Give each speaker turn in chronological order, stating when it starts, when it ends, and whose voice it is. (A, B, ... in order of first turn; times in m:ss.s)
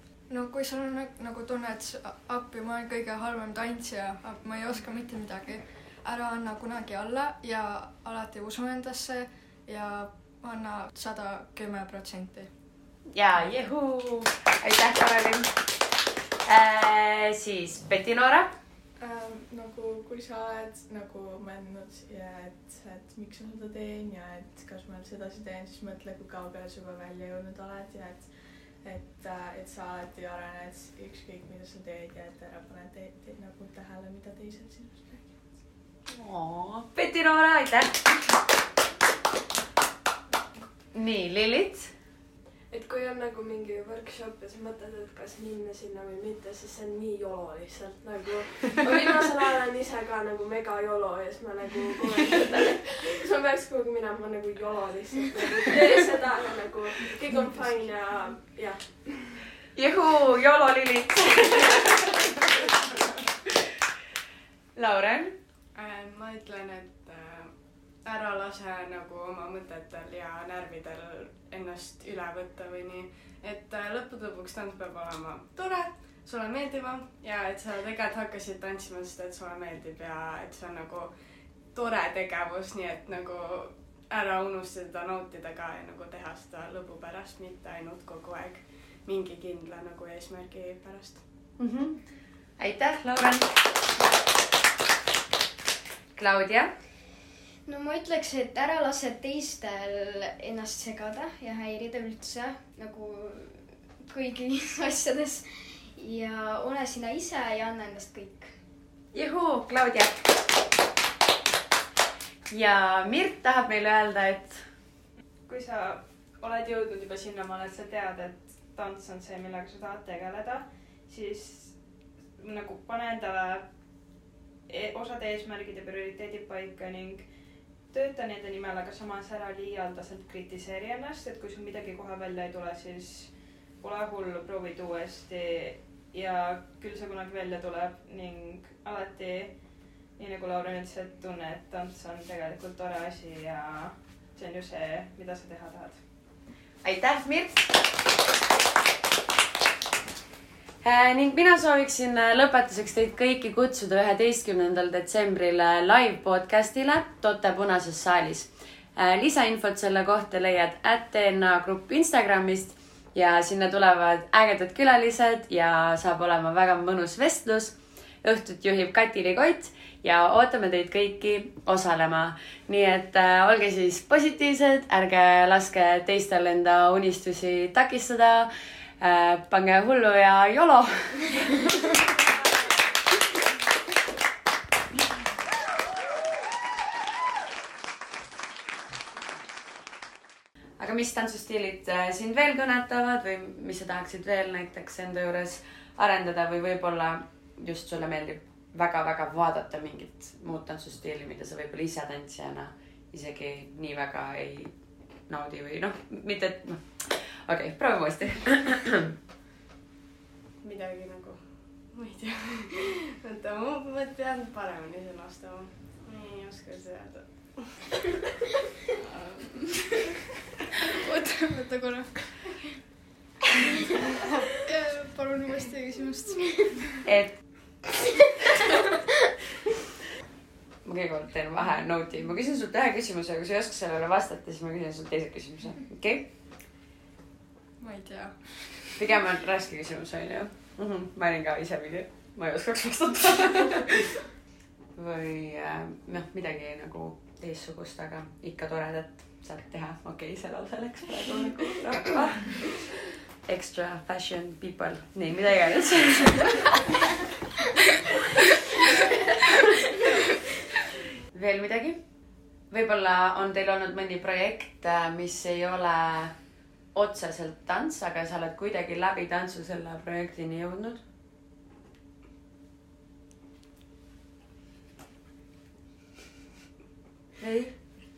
0:00.3-0:12.5 A
0:13.1-0:15.5 B
0:16.4-0:18.5 B
0:19.0-0:35.6 C
0:36.1-0:38.0 B
0:40.9-0:41.9 B
0:42.7-0:59.4 D
0:59.8-1:02.7 B
1:04.8-1:05.4 B
1:05.7-1:07.5 E
1:08.0-1:21.1 E
1:21.7-1:31.2 E
1:31.6-1:32.0 B
1:32.6-1:33.5 B
1:36.2-1:36.7 B
1:37.6-1:48.6 F
1:49.1-1:50.2 B
1:52.5-1:54.6 B
1:55.5-2:01.8 G
2:02.4-2:03.7 G
2:04.7-2:07.3 G
2:07.9-2:26.0 G
2:26.8-2:27.7 B
2:30.8-3:01.9 B
3:10.8-3:24.7 B
3:25.3-3:29.2 B
3:30.6-3:37.9 E
3:39.1-3:39.5 E
3:41.0-3:42.4 H
3:44.7-3:46.7 H
3:47.0-3:47.8 B
3:50.8-3:56.3 B
3:57.8-3:58.9 A
3:59.0-4:04.2 B
4:05.0-4:16.8 B
4:21.3-4:22.0 B
4:22.7-4:26.3 B
4:26.9-4:31.0 B
4:37.4-4:37.7 B